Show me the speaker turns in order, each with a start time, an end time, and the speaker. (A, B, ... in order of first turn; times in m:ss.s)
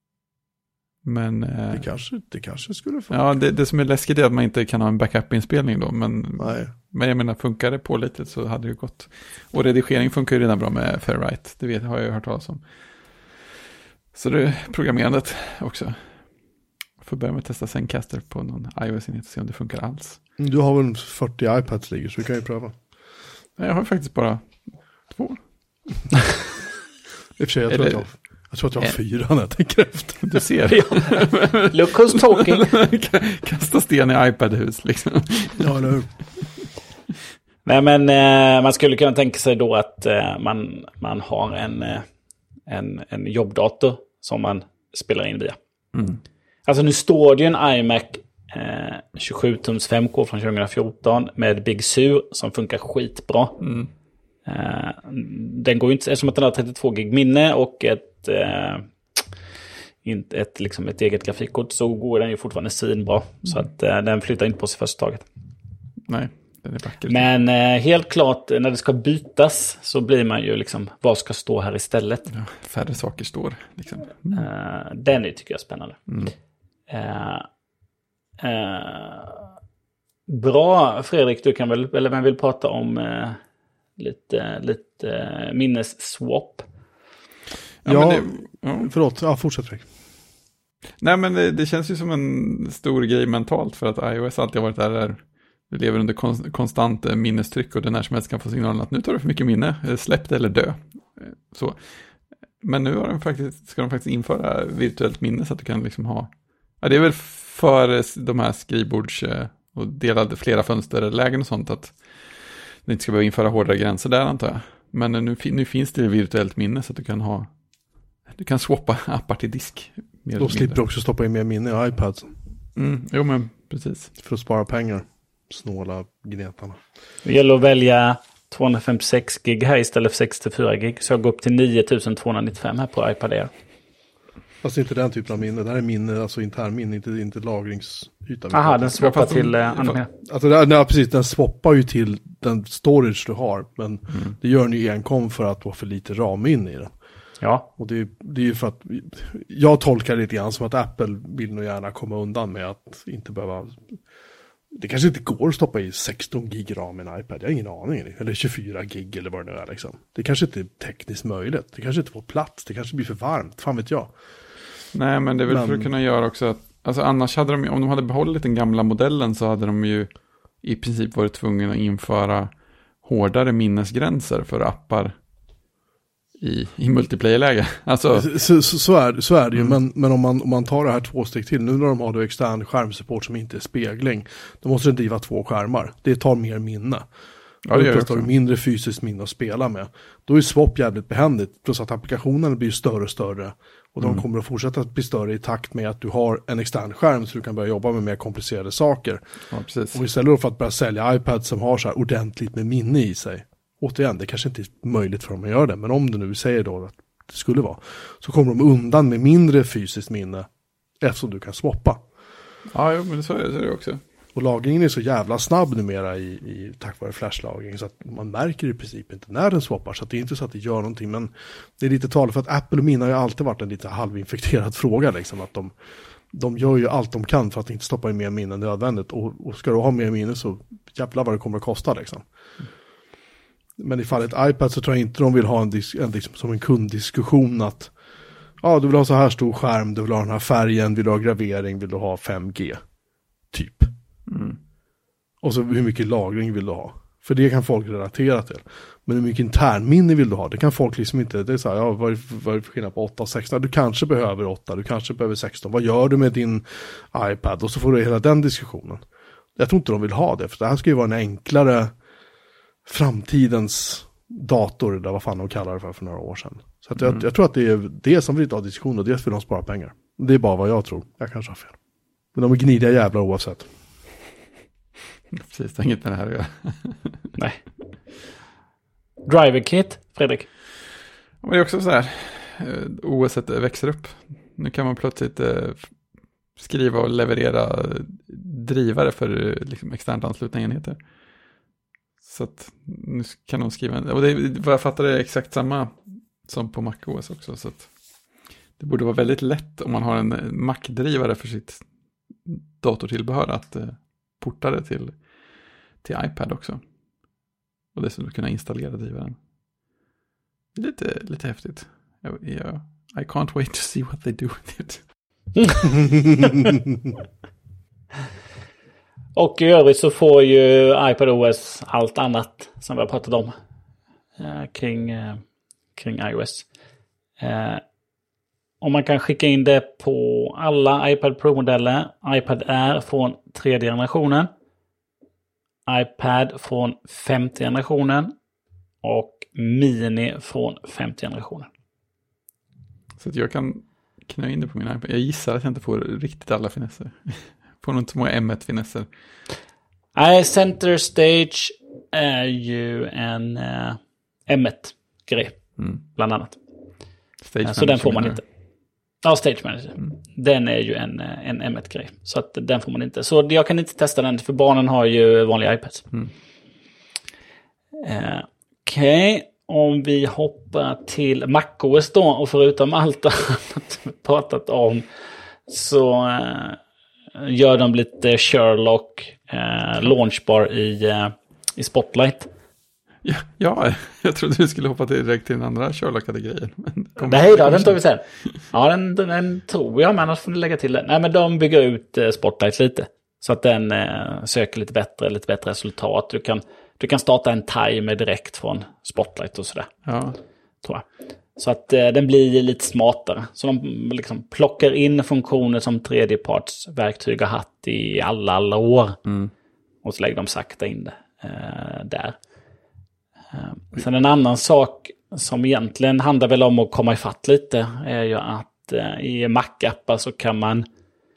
0:01.0-0:01.9 A
0:01.7-0:03.2 B
0:03.1-0:13.4 A
0:06.4-0:06.7 B
0:14.1-0:16.2 A
0:17.0-0:20.2 A
0:20.4-0:22.8 B
0:23.6-0:25.4 A
0:27.4-0:30.5 B
0:27.7-0:28.1 A
0:30.2-0:35.7 A
0:30.7-0:32.7 C
0:35.6-0:36.2 B
0:37.6-0:42.1 C
0:42.7-0:45.6 C
0:45.9-0:46.2 A
0:46.7-0:53.6 C
0:53.6-0:53.9 A
0:54.5-0:59.2 C
1:00.0-1:05.3 C
1:06.0-1:07.3 A
1:07.1-1:12.3 C
1:12.3-1:14.4 A
1:14.3-1:16.2 C
1:16.1-1:16.3 A
1:16.9-1:17.5 C
1:18.4-1:19.5 C
1:20.3-1:23.4 C
1:24.0-1:26.7 C
1:27.8-1:28.9 A
1:27.8-1:29.9 B
1:31.0-1:42.0 A
1:42.6-1:57.5 A
1:58.3-2:00.8 A
2:00.4-2:02.3 B
2:02.8-2:04.1 A
2:04.2-2:06.8 B
2:07.2-2:13.5 C
2:14.6-2:19.0 B
2:18.5-2:20.1 C
2:19.0-2:20.0 A
2:20.2-2:26.9 B
2:27.4-2:27.7 C
2:27.8-2:34.0 B
2:34.7-2:44.1 B
2:44.9-2:55.1 A
2:45.5-2:45.9 B
2:56.4-2:58.3 A
2:58.1-3:07.0 B
3:07.7-3:08.3 A
3:07.7-3:19.2 B
3:19.5-3:20.0 A
3:19.9-3:30.5 B
3:31.0-3:32.0 B
3:32.7-3:34.0 A
3:34.4-3:45.7 B
3:46.3-3:52.2 B
3:53.8-3:57.9 B
3:58.6-4:02.8 B
4:03.5-4:03.9 B
4:04.3-4:04.6 A
4:05.4-4:19.0 B
4:19.6-4:21.9 B
4:22.9-4:31.8 B
4:32.3-4:33.7 B
4:35.3-4:37.3 A
4:37.4-4:37.6 C
4:39.2-4:40.5 C
4:41.4-4:45.9 A
4:46.6-4:51.0 A
4:52.2-4:57.9 A
4:58.8-5:01.9 A
5:02.4-5:05.2 A
5:06.0-5:06.8 A
5:07.9-5:09.4 A
5:10.8-5:15.0 A
5:15.6-5:15.9 C
5:19.4-5:23.5 C
5:24.4-5:25.4 C
5:26.0-5:26.7 C
5:27.4-5:27.8 C
5:28.8-5:34.5 C
5:35.9-5:38.4 C
5:39.0-5:41.7 C
5:43.2-5:49.1 A
5:50.2-5:56.6 C
5:57.4-5:58.4 A
5:57.6-5:58.4 C
5:59.2-6:06.1 C
6:08.0-6:15.1 C
6:15.7-6:16.8 C
6:17.4-6:22.5 C
6:23.2-6:28.0 A
6:27.2-6:39.9 C
6:40.0-6:40.4 A
6:41.6-6:49.2 C
6:49.2-6:49.5 A
6:50.0-6:52.4 C
6:53.5-7:00.9 C